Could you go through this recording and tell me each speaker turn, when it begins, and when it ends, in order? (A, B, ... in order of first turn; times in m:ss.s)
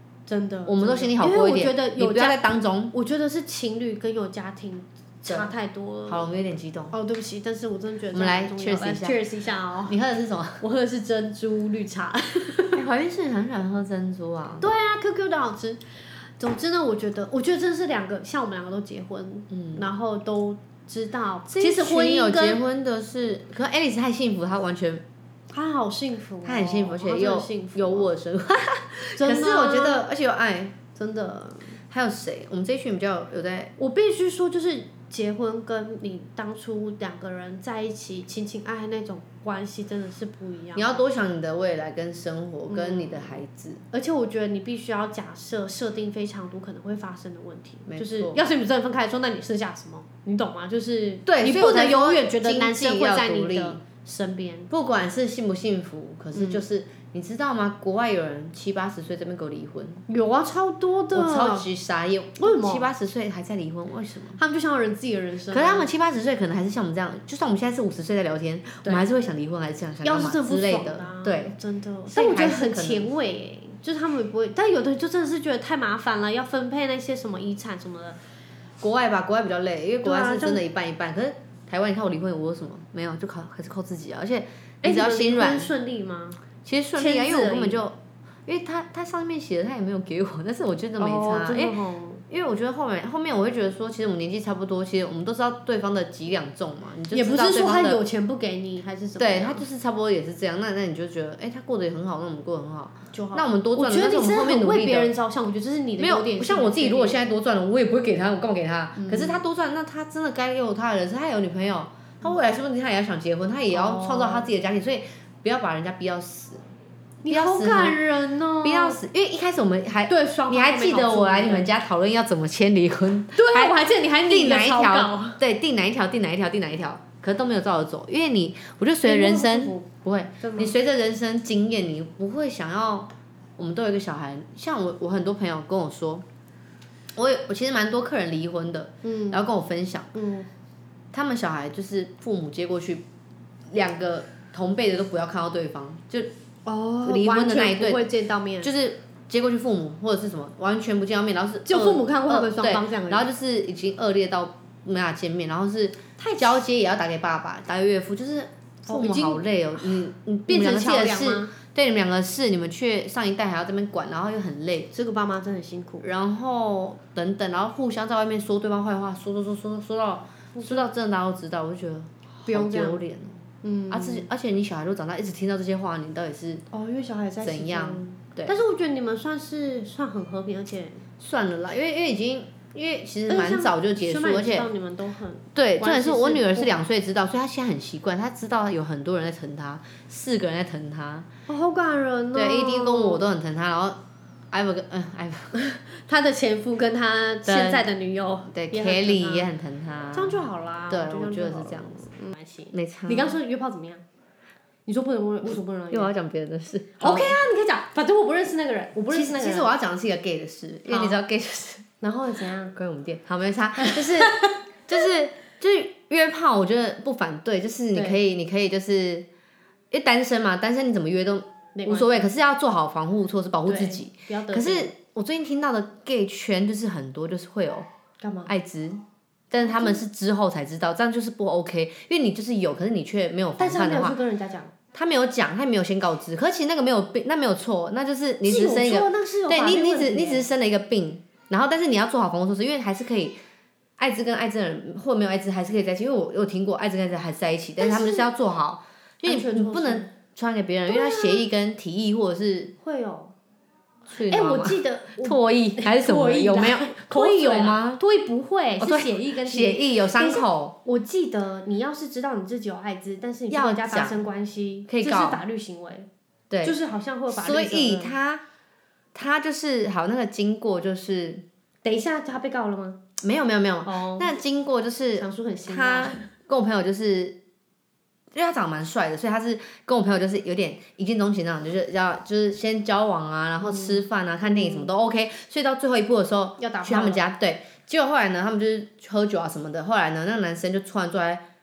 0:00.3-0:06.3 A
0:00.6-0:02.9 B
0:06.1-0:06.9 B
0:06.9-0:10.0 A
0:08.1-0:09.2 B
0:09.9-0:10.6 B
0:10.6-0:12.8 A
0:12.7-0:14.6 B
0:14.6-0:15.8 A
0:16.4-0:22.6 A
0:19.5-0:19.9 B
0:21.5-0:25.0 B
0:25.5-0:28.1 A
0:26.4-0:30.8 B
0:29.2-0:30.0 A
0:30.9-0:31.8 A
0:31.9-0:33.7 B
0:33.8-0:41.0 A
0:40.7-0:43.8 B
0:42.7-0:43.4 A
0:43.9-0:54.7 A
0:47.9-0:48.4 B
0:51.2-0:53.8 B
0:54.7-1:00.0 B
0:56.3-0:56.6 A
1:00.1-1:01.7 A
1:01.1-1:04.4 B
1:02.4-1:02.9 A
1:04.4-1:05.9 A
1:05.5-1:11.6 B
1:10.0-1:18.2 A
1:12.1-1:13.1 B
1:18.8-1:25.7 B
1:20.0-1:20.6 A
1:24.8-1:26.4 A
1:26.6-1:31.8 B
1:26.9-1:27.8 A
1:31.0-1:32.2 A
1:32.3-1:38.0 B
1:37.1-1:39.6 A
1:39.2-1:45.1 B
1:43.1-1:47.2 A
1:46.0-1:56.7 B
1:49.0-1:49.4 A
1:53.7-1:54.5 A
1:57.2-1:59.0 A
1:57.3-1:58.0 B
1:58.6-2:16.2 B
2:00.1-2:01.7 A
2:03.3-2:05.4 A
2:09.0-2:09.9 A
2:10.4-2:10.7 A
2:17.1-2:20.1 B
2:19.0-2:19.4 A
2:20.1-2:20.5 A
2:21.1-2:23.0 B
2:23.7-2:26.3 B
2:26.6-2:28.7 A
2:27.0-2:28.1 B
2:28.6-2:44.9 B
2:31.6-2:33.2 A
2:36.2-2:36.6 A
2:38.9-2:39.4 A
2:40.5-2:41.5 A
2:44.9-2:46.1 A
2:46.0-2:56.6 B
2:50.5-2:50.9 A
2:52.4-2:53.0 A
2:53.6-2:54.3 A
2:56.7-3:01.0 A
2:57.4-2:58.6 B
3:01.2-3:04.7 B
3:03.3-3:06.8 A
3:05.5-3:11.3 B
3:11.5-3:13.2 A
3:12.3-3:15.5 B
3:15.5-3:19.5 A
3:17.4-3:17.9 B
3:18.5-3:22.0 B
3:20.1-3:24.0 A
3:22.7-3:23.4 B
3:24.8-3:26.1 A
3:25.9-3:27.4 B
3:27.0-3:29.7 A
3:29.1-3:31.9 B
3:30.9-3:31.2 A
3:32.0-3:32.8 A
3:32.7-3:39.3 B
3:33.8-3:34.6 A
3:37.9-3:38.2 A
3:39.9-3:47.9 B
3:41.7-3:42.3 A
3:43.6-3:44.9 A
3:48.2-3:48.5 A
3:48.4-3:54.2 B
3:49.6-3:50.0 A
3:53.6-3:54.7 A
3:54.9-4:03.4 B
3:58.4-4:00.5 A
4:04.0-4:12.7 B
4:07.8-4:08.3 A
4:09.2-4:10.1 A
4:10.9-4:11.4 A
4:12.8-4:13.3 A
4:14.1-4:18.0 B
4:14.3-4:26.1 A
4:18.8-4:20.8 B
4:23.5-4:24.2 B
4:24.9-4:25.4 B
4:26.5-4:26.8 B
4:26.6-4:28.2 A
4:27.3-4:28.4 B
4:29.1-4:31.4 B
4:31.8-4:33.0 A
4:33.2-4:37.4 B
4:33.8-4:34.3 A
4:35.2-4:36.3 A
4:38.3-4:51.4 B
4:43.6-4:44.9 A
4:46.6-4:47.3 A